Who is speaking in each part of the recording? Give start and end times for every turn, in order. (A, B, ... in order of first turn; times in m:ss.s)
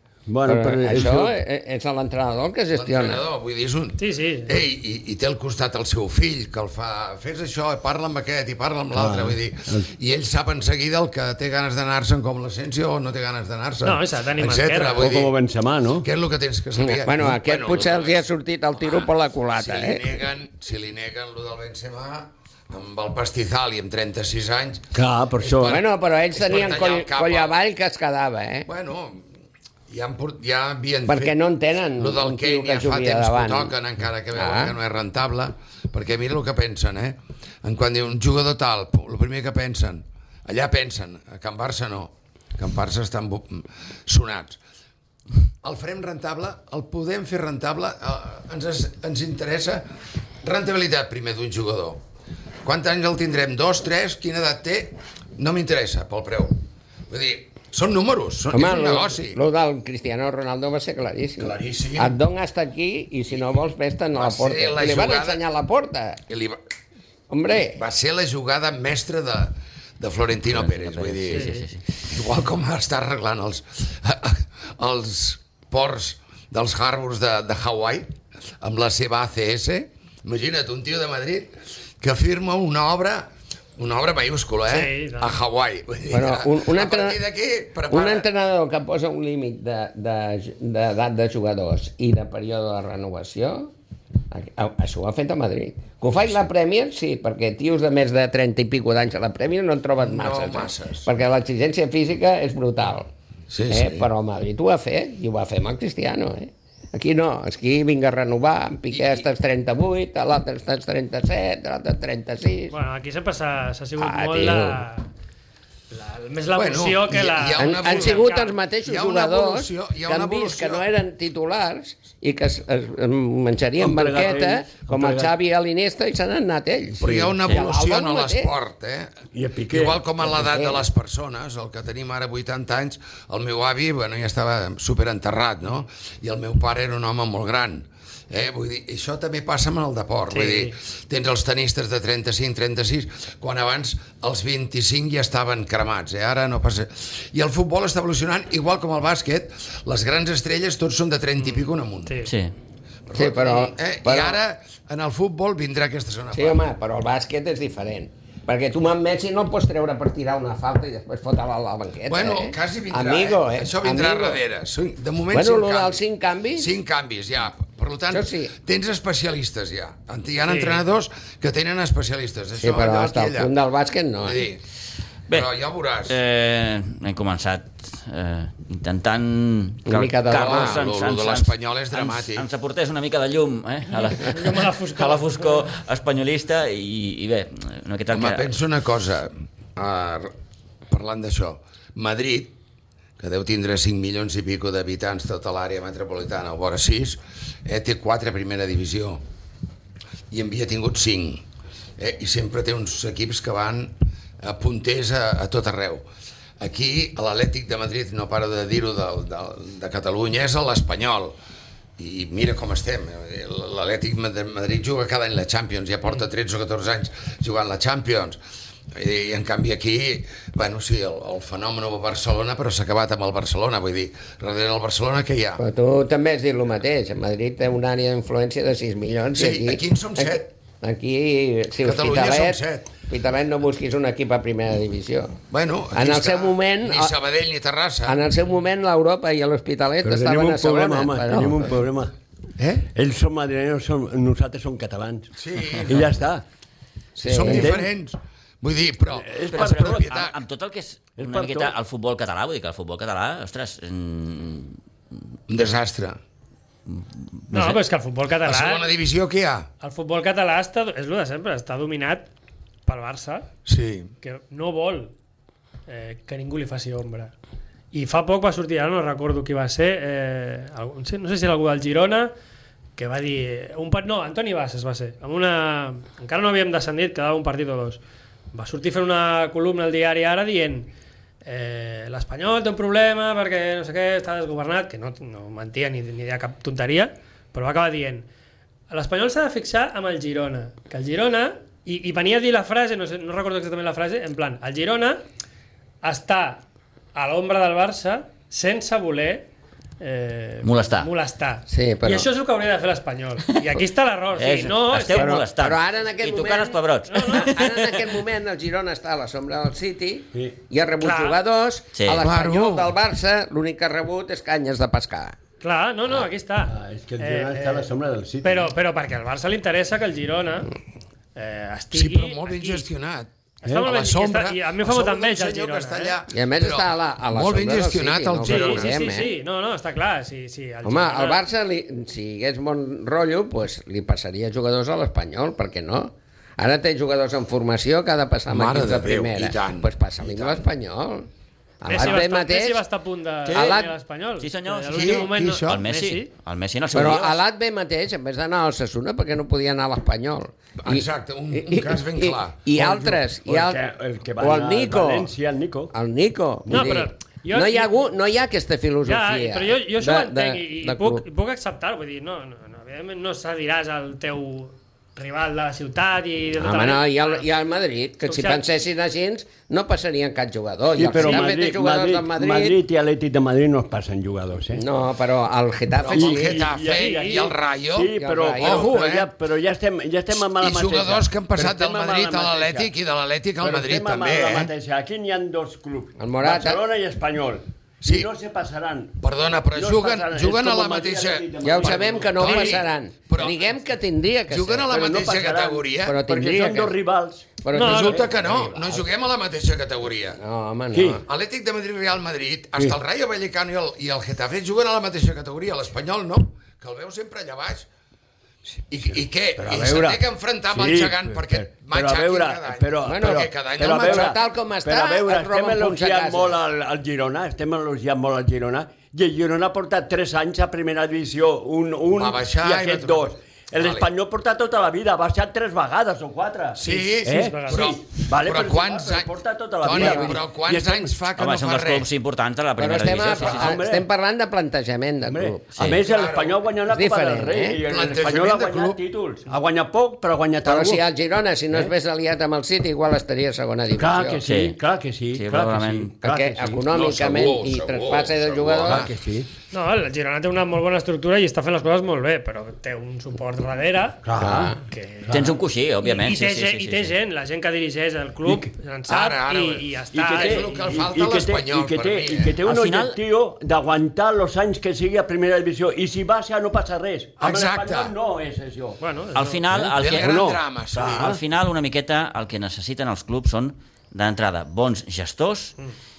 0:00.3-0:01.3 A
0:00.4-0:03.2 B
0:02.7-0:15.4 C
0:04.0-0:04.5 D
0:08.9-0:09.9 A
0:13.8-0:15.1 D
0:15.0-0:16.0 A
0:16.0-0:18.2 C
0:16.8-0:20.0 B
0:18.8-0:27.5 C
0:24.9-0:25.8 A
0:25.6-0:28.7 B
0:28.6-0:29.2 C
0:29.9-0:31.3 C
0:31.1-0:33.8 B
0:32.0-0:44.6 C
0:34.3-0:34.7 B
0:45.6-0:49.8 C
0:50.4-0:52.0 C
0:52.6-0:59.4 C
0:58.5-1:06.2 B
1:01.4-1:02.1 C
1:04.2-1:05.4 C
1:06.3-1:06.6 C
1:07.3-1:07.8 B
1:07.7-1:11.5 C
1:10.7-1:11.4 B
1:10.8-1:11.8 E
1:11.3-1:11.6 D
1:12.1-1:28.3 C
1:24.7-1:25.3 D
1:26.1-1:27.2 B
1:27.9-1:33.7 B
1:34.3-1:43.1 B
1:40.0-1:41.1 C
1:43.5-1:44.1 C
1:43.7-1:52.7 B
1:48.9-1:49.2 C
1:52.7-1:55.1 D
1:54.0-1:54.8 B
1:55.9-1:58.5 D
1:56.5-1:58.3 C
1:57.6-2:08.5 B
1:58.8-2:00.8 C
2:03.8-2:05.3 A
2:07.0-2:32.2 C
2:09.3-2:10.0 A
2:10.2-2:10.9 B
2:20.3-2:20.8 D
2:31.4-2:32.3 D
2:32.2-2:32.5 E
2:33.1-2:36.6 C
2:33.1-2:34.4 B
2:36.3-2:44.4 B
2:42.1-2:46.0 C
2:45.3-2:46.7 B
2:46.6-2:53.5 C
2:48.1-2:48.5 B
2:50.4-2:50.8 D
2:52.6-2:54.4 B
2:54.2-2:54.6 C
2:55.3-2:56.2 C
2:56.0-3:08.5 E
2:59.9-3:00.8 B
3:00.2-3:02.4 C
3:03.9-3:05.6 D
3:08.1-3:10.3 C
3:10.9-3:12.5 C
3:13.2-3:19.2 C
3:20.3-3:21.4 C
3:22.0-3:26.1 C
3:26.6-3:31.4 C
3:32.0-3:38.4 C
3:38.9-3:45.6 C
3:45.6-3:55.4 B
3:49.3-3:50.5 C
3:51.8-3:52.9 C
3:55.5-3:58.2 C
3:55.9-3:57.1 B
3:58.0-4:01.7 B
4:00.0-4:02.1 A
4:02.6-4:02.8 C
4:02.9-4:05.3 A
4:05.4-4:06.2 C
4:05.9-4:06.4 A
4:07.2-4:10.4 C
4:07.2-4:07.8 B
4:07.5-4:07.9 A
4:09.1-4:10.1 A
4:09.5-4:14.8 E
4:11.2-4:11.7 A
4:15.5-4:16.2 C
4:16.9-4:17.8 E
4:17.5-4:18.9 D
4:18.4-4:19.7 C
4:19.8-4:22.3 D
4:22.8-4:23.5 D
4:23.6-4:24.1 C
4:24.2-4:25.1 D
4:25.9-4:27.3 D
4:27.9-4:32.3 D
4:33.0-4:38.0 D
4:38.5-4:40.9 D
4:41.4-4:48.2 D
4:48.9-4:55.2 D
4:56.0-4:56.6 D
4:57.1-4:59.5 D
5:00.0-5:05.4 D
5:00.6-5:01.1 E
5:01.7-5:02.3 B
5:04.4-5:08.2 E
5:05.1-5:15.4 B
5:07.1-5:07.5 D
5:11.0-5:11.4 D
5:12.0-5:12.2 E
5:12.2-5:12.9 C
5:15.6-5:17.9 D
5:16.7-5:18.7 A
5:18.4-5:20.7 D
5:21.3-5:22.9 D
5:21.9-5:29.0 C
5:23.6-5:26.2 D
5:26.3-5:29.3 B
5:28.4-5:31.4 D
5:30.8-5:41.3 B
5:38.5-5:40.6 C
5:41.8-5:42.8 B
5:41.8-5:46.3 D
5:43.5-5:43.9 B
5:44.4-5:47.4 E
5:44.9-5:45.8 C
5:46.9-5:53.8 B
5:50.8-5:52.7 C
5:52.7-5:55.9 A
5:54.4-5:55.3 B
5:55.9-6:01.2 B
5:56.7-5:58.1 D
5:59.0-6:07.5 D
6:06.6-6:12.8 B
6:08.2-6:08.6 D
6:10.9-6:14.8 A
6:11.2-6:11.4 D
6:14.7-6:16.7 B
6:16.1-6:22.9 A
6:16.1-6:19.3 C
6:16.9-6:17.5 D
6:18.2-6:19.1 B
6:20.3-6:24.7 C
6:23.6-6:29.2 A
6:26.2-6:26.8 B
6:28.0-6:28.3 C
6:29.2-6:33.6 C
6:29.7-6:32.6 A
6:31.6-6:35.1 B
6:34.5-6:36.2 C
6:34.9-6:38.9 A
6:36.0-6:36.9 B
6:37.6-6:38.9 B
6:37.7-6:38.2 D
6:37.8-6:40.4 C
6:40.4-6:41.2 B
6:40.9-6:41.2 A
6:41.2-6:47.9 C
6:48.8-7:11.1 A
6:48.9-6:54.3 C
6:53.0-6:56.6 B
7:02.1-7:04.1 C
7:06.8-7:12.1 C
7:06.9-7:07.9 D
7:09.9-7:10.3 B
7:11.4-7:13.7 E
7:12.8-7:15.6 B
7:13.3-7:13.7 C
7:13.4-7:14.0 A
7:15.3-7:21.0 A
7:15.7-7:16.0 E
7:16.0-7:16.6 C
7:16.9-7:17.8 B
7:17.8-7:19.0 C
7:20.6-7:24.4 B
7:24.0-7:26.8 A
7:24.4-7:24.8 E
7:25.3-7:26.1 E
7:26.2-7:29.1 B
7:26.8-7:29.1 C
7:28.8-7:29.5 A
7:29.7-7:34.2 D
7:34.2-7:34.7 A
7:34.4-7:34.8 B
7:34.8-7:35.4 D
7:35.2-7:35.6 A
7:35.3-7:37.1 E
7:36.0-7:40.8 D
7:38.4-7:38.7 A
7:39.1-7:42.6 C
7:40.1-7:49.0 A
7:42.6-7:43.2 E
7:47.4-7:48.1 C
7:49.0-7:49.6 D
7:49.3-7:55.7 E
7:49.7-7:51.4 A
7:49.9-7:51.4 C